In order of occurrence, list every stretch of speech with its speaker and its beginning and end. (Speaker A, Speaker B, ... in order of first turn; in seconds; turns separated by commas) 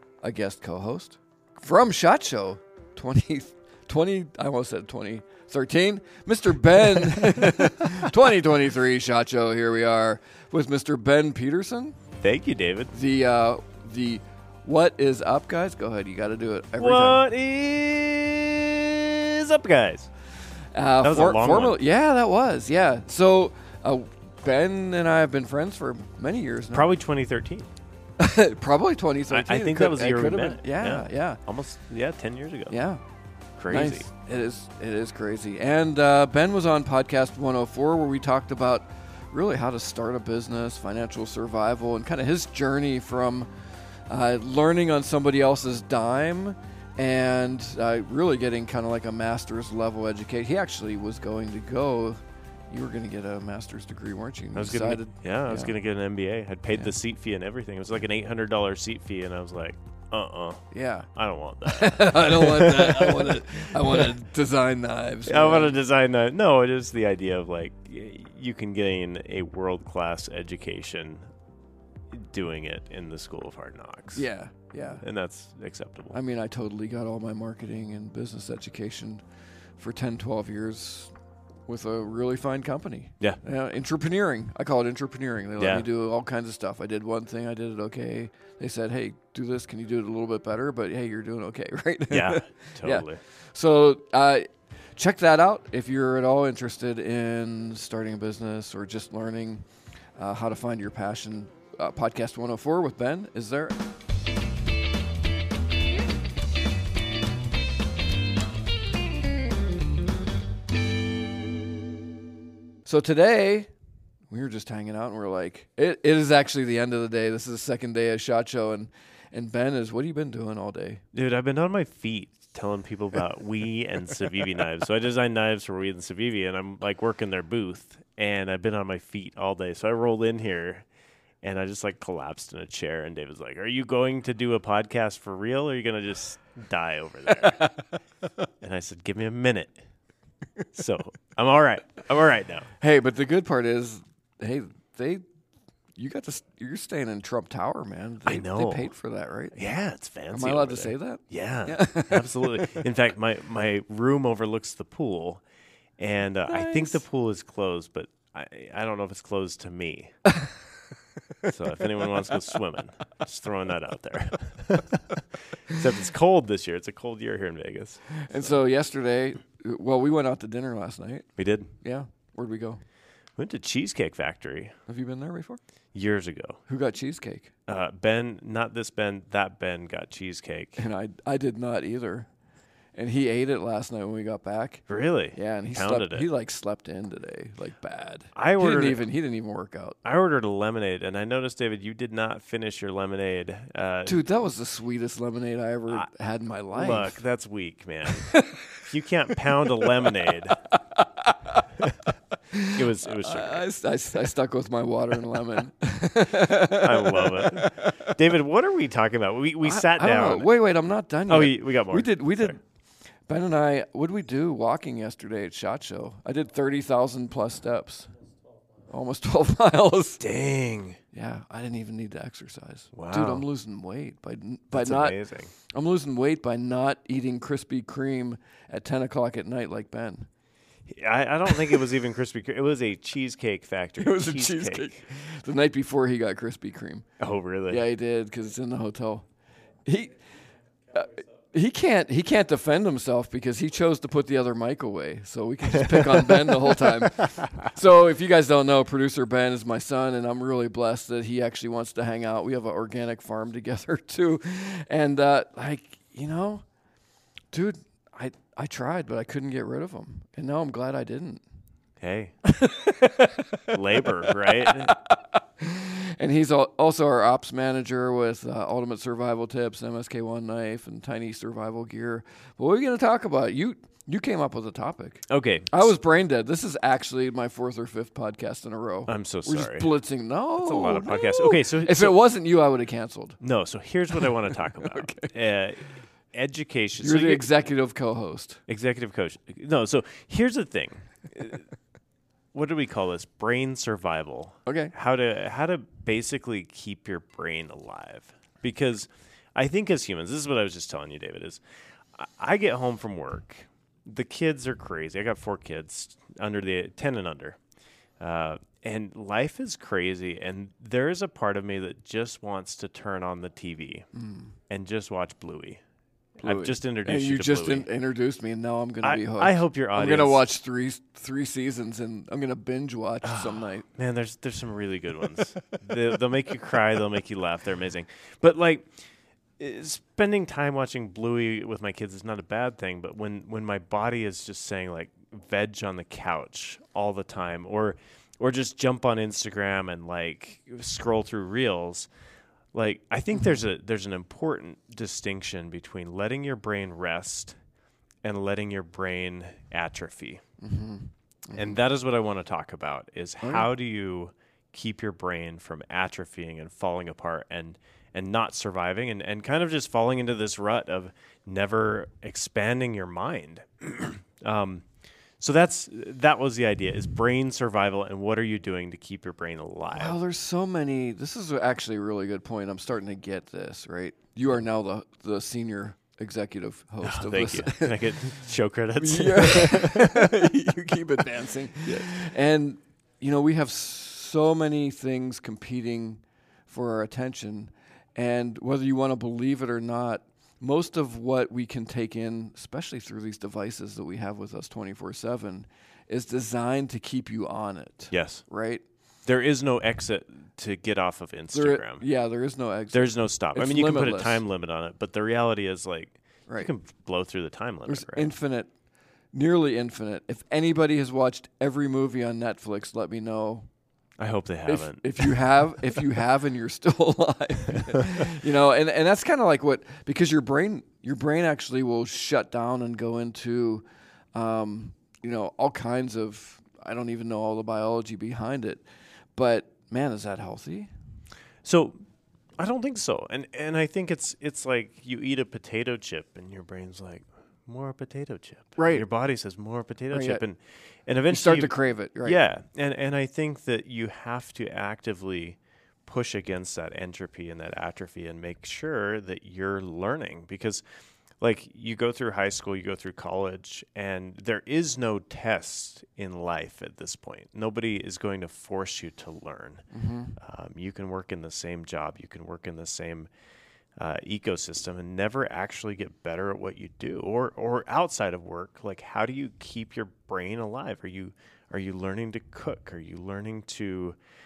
Speaker A: 0.2-12.0, Speaker B: 12.2-12.9, Speaker A: 12.9-17.2, Speaker B: 16.8-20.1, Speaker A: 20.7-26.9, Speaker B: 21.0-21.8, Speaker B: 26.7-27.7, Speaker A: 28.2-31.4, Speaker B: 29.3-32.8, Speaker A: 32.7-33.0, Speaker B: 33.6-34.1, Speaker A: 33.7-43.5, Speaker A: 44.1-55.8, Speaker B: 54.5-60.6, Speaker A: 60.7-61.1, Speaker B: 61.1-64.1, Speaker A: 61.6-65.8, Speaker B: 65.2-71.3, Speaker B: 72.1-74.2, Speaker A: 74.2-75.0, Speaker B: 75.0-76.2, Speaker A: 76.1-79.2, Speaker A: 79.8-81.1, Speaker A: 81.7-99.7, Speaker B: 85.6-85.9, Speaker B: 92.1-93.2, Speaker A: 100.2-103.8, Speaker A: 112.9-113.7, Speaker A: 114.3-121.0, Speaker B: 121.1-130.9, Speaker B: 131.4-137.7, Speaker B: 138.6-139.8, Speaker B: 140.7-142.7, Speaker A: 142.8-145.2, Speaker A: 146.0-149.6, Speaker B: 148.3-148.9, Speaker B: 149.5-155.4, Speaker A: 150.3-152.8, Speaker B: 156.0-160.2, Speaker A: 156.5-157.0, Speaker B: 161.4-168.6, Speaker A: 168.1-171.3, Speaker B: 171.4-171.7, Speaker A: 171.8-172.8, Speaker B: 173.4-174.8, Speaker A: 174.9-175.6, Speaker B: 175.9-176.6, Speaker A: 176.7-177.5, Speaker B: 177.7-180.9, Speaker A: 180.8-182.3, Speaker A: 182.9-190.0, Speaker B: 184.9-186.3, Speaker B: 188.3-189.1, Speaker B: 190.0-194.2, Speaker A: 194.1-197.2, Speaker B: 196.7-200.6, Speaker A: 198.1-198.8, Speaker A: 199.6-202.0, Speaker A: 202.5-208.1, Speaker B: 202.7-203.6, Speaker B: 206.7-210.5, Speaker A: 209.6-212.6, Speaker B: 211.3-212.6, Speaker A: 213.3-218.1, Speaker A: 218.9-220.2, Speaker B: 220.2-221.0, Speaker A: 221.1-225.2, Speaker B: 222.9-223.5, Speaker B: 224.7-225.5, Speaker A: 225.7-230.3, Speaker B: 230.9-235.0, Speaker A: 234.0-237.1, Speaker B: 237.2-237.8, Speaker A: 237.7-239.3, Speaker A: 239.8-240.2, Speaker A: 240.9-256.6, Speaker B: 245.7-247.7, Speaker A: 257.5-261.4, Speaker B: 262.0-262.4, Speaker A: 262.4-283.4, Speaker B: 263.7-264.9, Speaker B: 275.3-275.9, Speaker B: 279.1-279.9, Speaker B: 280.6-282.2, Speaker B: 283.4-287.5, Speaker A: 284.1-285.3, Speaker A: 287.0-288.6, Speaker B: 288.7-291.7, Speaker B: 292.5-301.6, Speaker A: 294.7-294.9, Speaker B: 302.1-307.6, Speaker B: 308.2-314.1, Speaker A: 314.1-314.5, Speaker B: 314.7-315.8, Speaker B: 316.4-317.9, Speaker A: 316.4-323.9, Speaker B: 319.0-320.4, Speaker B: 323.2-328.9, Speaker B: 329.6-342.1, Speaker B: 342.7-347.6, Speaker B: 348.2-350.4, Speaker A: 350.6-351.8, Speaker B: 351.5-364.9, Speaker A: 353.4-353.7, Speaker B: 365.4-370.2, Speaker A: 369.9-378.4, Speaker B: 377.0-380.6, Speaker A: 379.0-398.8, Speaker B: 398.1-398.4, Speaker B: 399.3-402.1, Speaker A: 401.5-404.4, Speaker B: 402.9-408.3, Speaker A: 407.9-408.7, Speaker A: 409.3-413.7, Speaker B: 414.2-415.4, Speaker A: 414.7-428.8, Speaker B: 417.8-418.2, Speaker A: 429.4-430.9, Speaker B: 431.6-432.0, Speaker B: 432.6-450.8, Speaker A: 438.8-439.1, Speaker A: 440.1-440.4, Speaker A: 441.3-442.4, Speaker B: 451.4-459.8, Speaker A: 459.9-460.4, Speaker B: 460.4-463.3, Speaker B: 464.0-474.2